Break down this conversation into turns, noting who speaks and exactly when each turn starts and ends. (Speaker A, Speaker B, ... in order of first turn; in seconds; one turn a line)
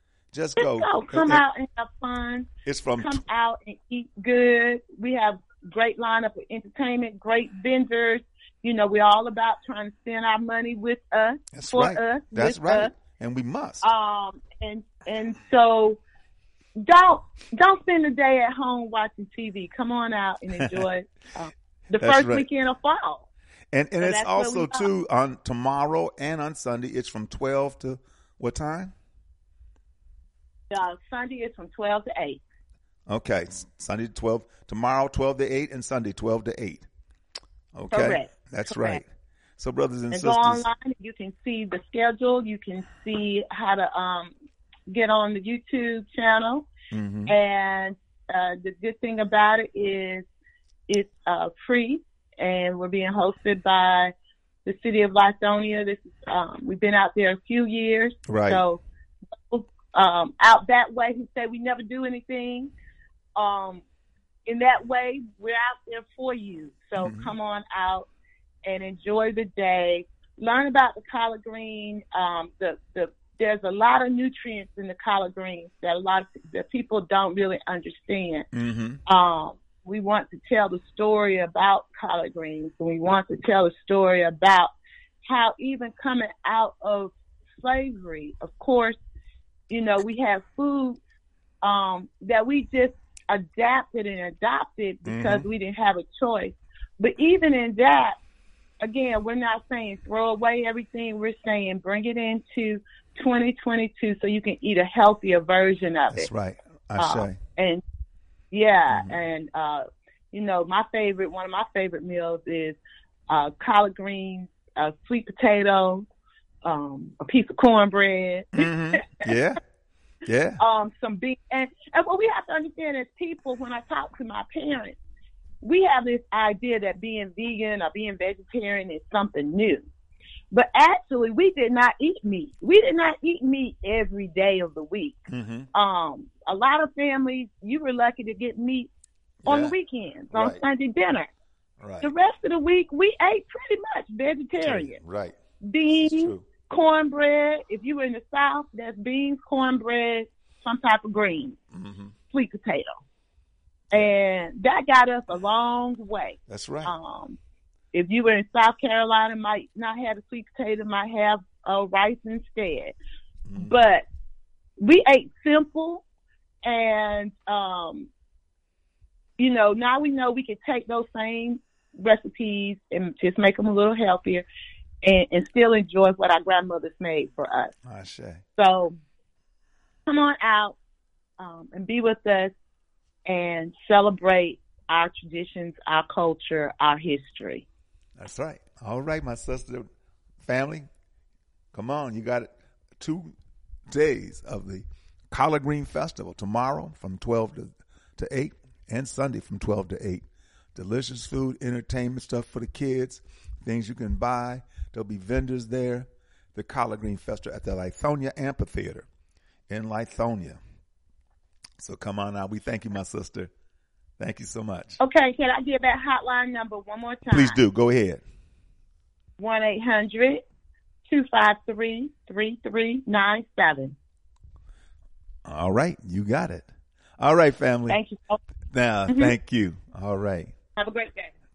Speaker A: 0.3-1.4
Speaker B: 0.6-12.9
Speaker A: 2.6-3.2
Speaker A: 11.5-13.8
Speaker B: 13.8-16.0
Speaker B: 16.8-23.3
Speaker A: 22.0-22.5
Speaker A: 23.7-28.9
Speaker B: 24.0-24.9
Speaker B: 30.7-32.4
Speaker A: 33.1-36.9
Speaker A: 37.8-40.7
Speaker B: 37.9-39.0
Speaker B: 40.1-44.3
Speaker B: 44.9-46.7
Speaker A: 46.9-47.3
Speaker B: 47.3-50.2
Speaker B: 50.9-54.1
Speaker B: 54.6-58.8
Speaker A: 58.3-58.6
Speaker B: 59.4-62.7
Speaker B: 63.4-63.8
Speaker B: 64.5-68.1
Speaker A: 67.0-67.3
Speaker B: 68.7-78.5
Speaker A: 78.5-79.0
Speaker B: 79.1-84.7
Speaker B: 85.3-89.0
Speaker B: 89.7-91.0
Speaker B: 91.6-98.2
Speaker A: 95.0-95.5
Speaker B: 98.8-106.3
Speaker A: 106.1-107.4
Speaker B: 107.0-107.8
Speaker B: 108.5-112.8
Speaker A: 108.9-109.2
Speaker B: 113.3-116.1
Speaker B: 116.6-119.3
Speaker A: 118.5-119.6
Speaker A: 120.3-120.6
Speaker B: 120.6-125.0
Speaker B: 125.6-129.8
Speaker B: 130.5-135.2
Speaker A: 135.3-135.7
Speaker B: 135.7-138.9
Speaker A: 139.4-139.8
Speaker B: 139.5-141.3
Speaker A: 140.3-140.6
Speaker A: 141.8-142.1
Speaker B: 142.0-145.0
Speaker A: 144.6-145.4
Speaker B: 145.6-151.6
Speaker A: 145.9-146.4
Speaker A: 151.7-152.2
Speaker B: 152.3-153.0
Speaker B: 153.9-157.4
Speaker A: 156.5-156.9
Speaker B: 157.9-162.9
Speaker A: 163.5-163.8
Speaker B: 163.6-164.0
Speaker B: 164.8-166.0
Speaker B: 166.6-168.1
Speaker B: 169.4-174.5
Speaker B: 175.0-177.7
Speaker A: 177.8-178.4
Speaker B: 178.6-179.0
Speaker B: 180.1-180.8
Speaker B: 181.4-182.5
Speaker B: 183.3-187.7
Speaker A: 188.2-189.9
Speaker A: 190.4-190.9
Speaker A: 191.7-193.3
Speaker A: 193.9-209.1
Speaker A: 209.7-210.6
Speaker A: 211.8-213.5
Speaker A: 214.2-215.0
Speaker B: 215.0-217.6
Speaker A: 217.3-218.2
Speaker B: 219.4-220.4
Speaker B: 221.1-224.0
Speaker A: 225.4-228.0
Speaker B: 227.9-228.4
Speaker A: 228.7-230.6
Speaker B: 229.1-229.3
Speaker B: 230.8-231.3